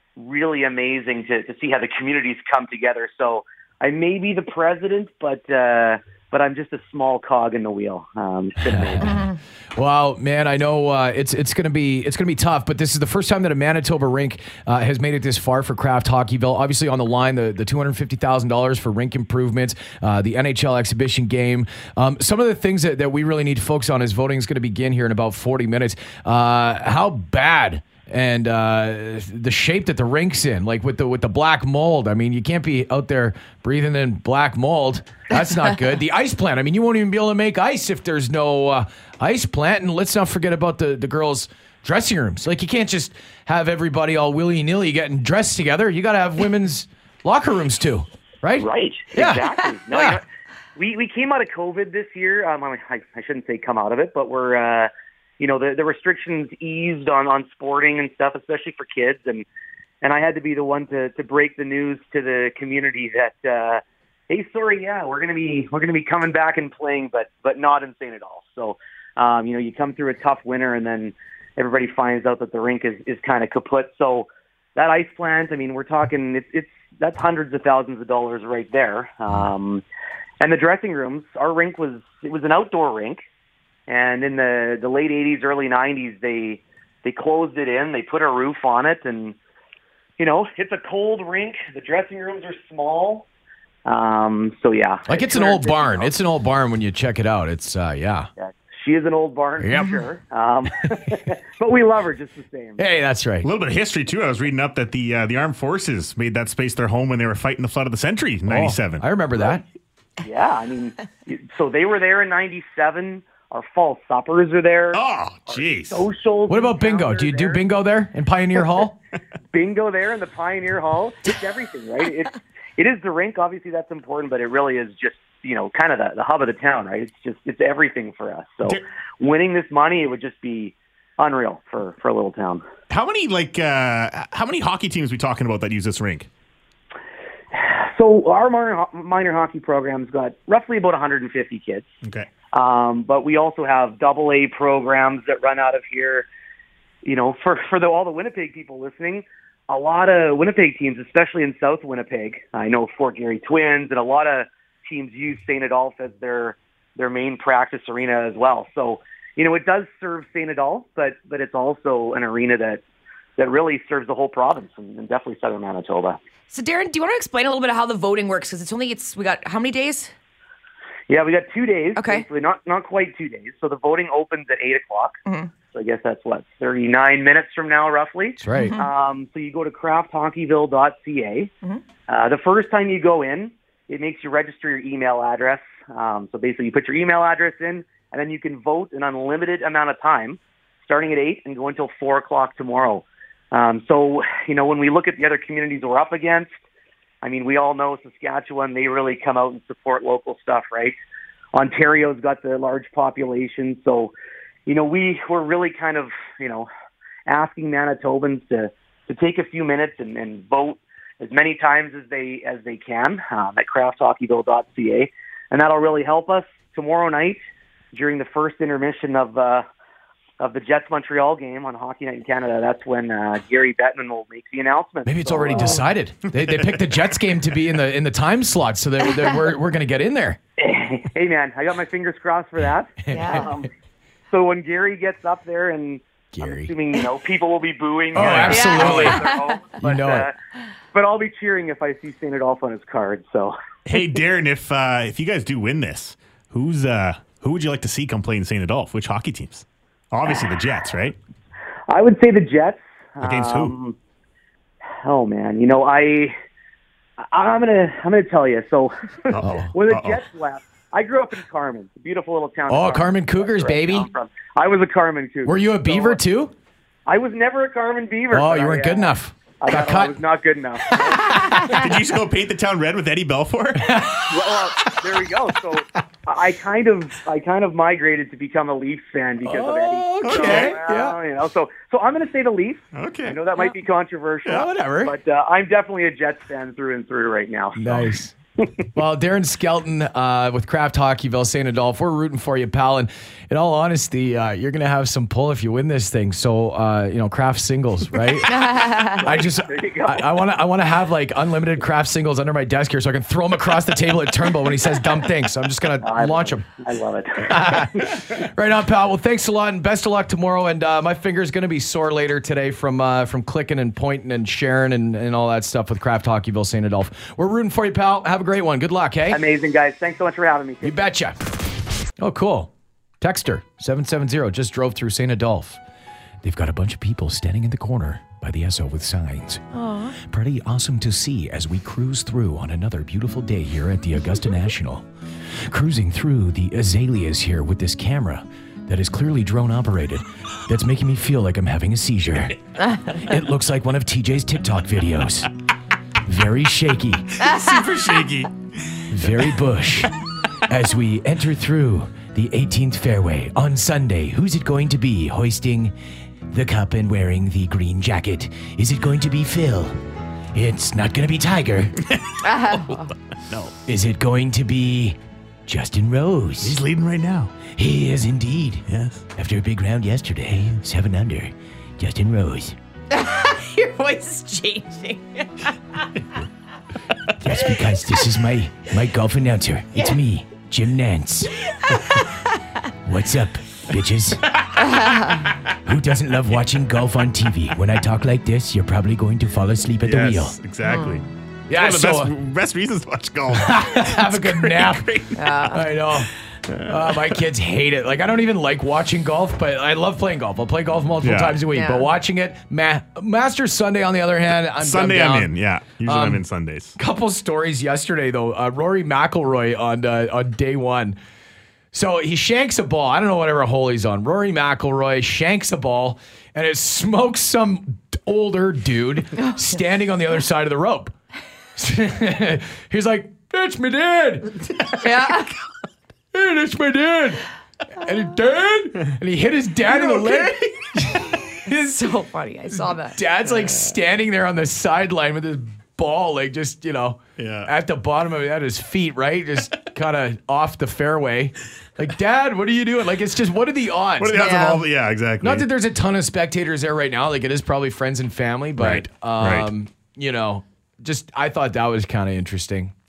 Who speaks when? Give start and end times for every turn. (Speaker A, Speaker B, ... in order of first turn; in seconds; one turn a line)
Speaker A: 0.2-9.2
Speaker B: 8.7-50.2
Speaker A: 48.6-50.2
Speaker A: 50.8-59.4
Speaker A: 60.0-79.8
Speaker A: 80.4-83.2
Speaker A: 83.9-89.3
Speaker A: 90.2-93.2
Speaker A: 93.8-96.1
Speaker B: 95.1-98.3
Speaker A: 98.4-102.8
Speaker B: 99.6-100.0
Speaker B: 102.8-103.5
Speaker C: 103.4-109.0
Speaker B: 108.5-109.6
Speaker A: 110.2-117.6
Speaker C: 114.9-116.0
Speaker B: 116.5-119.0
Speaker A: 119.5-132.6
Speaker C: 132.9-136.3
Speaker A: 137.5-141.9
Speaker C: 142.0-142.3
Speaker A: 142.5-146.3
Speaker A: 147.0-162.8
Speaker A: 163.4-166.2
Speaker D: 166.5-170.1
Speaker A: 171.1-175.2
Speaker D: 171.9-172.2
Speaker D: 175.2-175.5
Speaker A: 175.7-181.5
Speaker B: 178.4-178.8
Speaker D: 178.5-178.8
Speaker A: 182.1-196.5
Speaker A: 197.2-201.0
Speaker A: 201.5-204.1
Speaker A: 204.7-206.7
Speaker A: 207.3-217.4
Speaker A: 217.9-219.6
Speaker A: 220.4-225.8
Speaker B: 225.0-230.4
Speaker A: 230.6-233.7
Speaker B: 233.0-233.5
Speaker D: 233.1-233.5
Speaker A: 234.3-240.3
Speaker B: 236.3-236.7
Speaker B: 238.1-240.3
Speaker C: 238.1-239.1
Speaker D: 238.5-239.4
Speaker A: 240.9-243.6
Speaker C: 243.8-251.2
Speaker A: 251.9-253.9
Speaker C: 253.2-253.7
Speaker A: 255.0-256.3
Speaker A: 257.3-266.2
Speaker C: 259.3-260.2
Speaker B: 259.4-259.7
Speaker B: 262.7-264.1
Speaker B: 265.4-266.5
Speaker A: 267.1-271.5
Speaker B: 268.3-270.2
Speaker B: 270.9-271.9
Speaker C: 271.7-274.0
Speaker B: 273.8-274.4
Speaker A: 274.3-288.0
Speaker B: 279.4-281.2
Speaker C: 280.2-280.8
Speaker C: 282.9-283.4
Speaker B: 284.4-285.1
Speaker B: 287.8-288.3
Speaker B: 288.9-306.6
Speaker D: 298.6-299.2
Speaker A: 299.2-300.3
Speaker A: 306.0-308.1
Speaker B: 307.4-319.4
Speaker A: 319.3-321.1
Speaker B: 320.8-321.5
Speaker B: 322.2-325.8
Speaker B: 326.4-345.5
Speaker D: 329.7-330.2
Speaker B: 346.2-347.3
Speaker C: 347.4-349.0
Speaker D: 347.4-347.9
Speaker B: 349.1-350.1
Speaker B: 350.7-355.9
Speaker B: 356.5-360.0
Speaker B: 360.5-362.0
Speaker C: 362.1-363.0
Speaker D: 362.4-363.1
Speaker C: 363.5-363.7
Speaker B: 363.9-366.8
Speaker C: 366.6-367.6
Speaker B: 367.7-372.8
Speaker C: 368.9-369.2
Speaker D: 373.1-375.5
Speaker B: 377.4-381.5
Speaker D: 381.7-382.3
Speaker B: 383.0-384.6
Speaker D: 384.9-385.4
Speaker B: 385.8-390.6
Speaker C: 390.0-395.7
Speaker D: 390.8-391.2
Speaker B: 391.7-392.3
Speaker B: 393.5-396.3
Speaker D: 395.4-395.8
Speaker C: 396.7-397.4
Speaker B: 396.8-405.5
Speaker C: 401.2-401.6
Speaker D: 401.7-402.1
Speaker C: 404.8-406.9
Speaker B: 406.0-406.4
Speaker B: 406.9-411.2
Speaker B: 411.9-421.1
Speaker B: 421.8-425.3
Speaker D: 425.0-425.5
Speaker B: 426.3-427.4
Speaker B: 427.9-431.9
Speaker C: 429.9-430.7
Speaker D: 431.6-433.2
Speaker B: 433.1-444.6
Speaker C: 437.4-437.7
Speaker C: 444.2-445.7
Speaker D: 444.3-444.8
Speaker B: 445.4-452.9
Speaker C: 448.8-449.7